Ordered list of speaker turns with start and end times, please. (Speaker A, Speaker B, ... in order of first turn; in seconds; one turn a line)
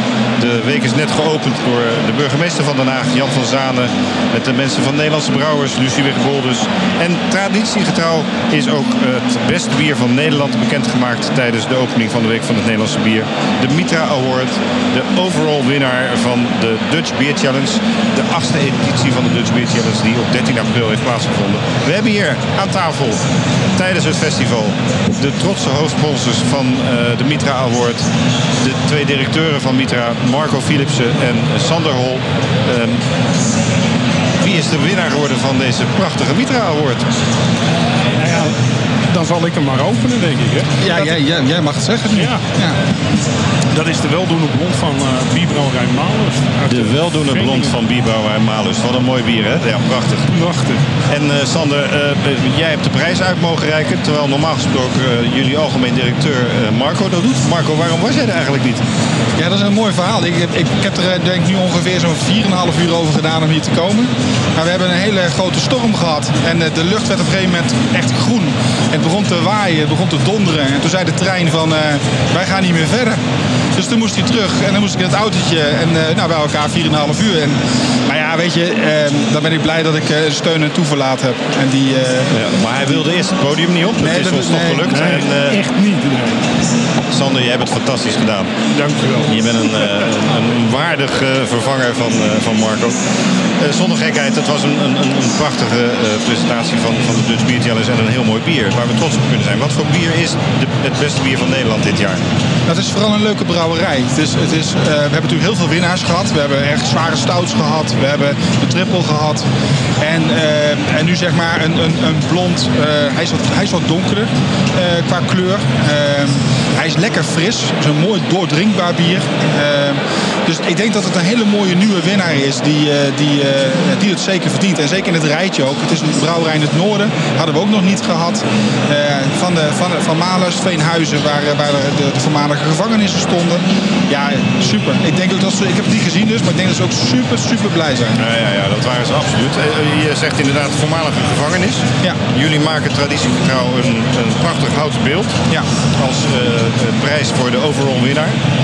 Speaker A: 0.4-23.2
Speaker A: 23.7-28.1
Speaker A: 28.6-33.0
Speaker A: 34.4-37.1
Speaker B: 38.1-38.5
Speaker B: 39.1-41.2
Speaker C: 40.8-42.8
Speaker B: 42.1-42.4
Speaker B: 43.7-47.7
Speaker A: 46.7-50.2
Speaker B: 50.3-50.8
Speaker A: 51.1-58.8
Speaker C: 59.4-73.2
Speaker C: 73.7-82.4
Speaker A: 82.3-85.6
Speaker C: 84.0-86.0
Speaker B: 84.9-86.4
Speaker A: 87.1-88.5
Speaker B: 88.7-90.0
Speaker A: 89.2-93.0
Speaker A: 93.6-102.3
Speaker C: 102.7-109.4
Speaker C: 110.0-138.2
Speaker A: 138.2-145.4
Speaker A: 145.9-148.4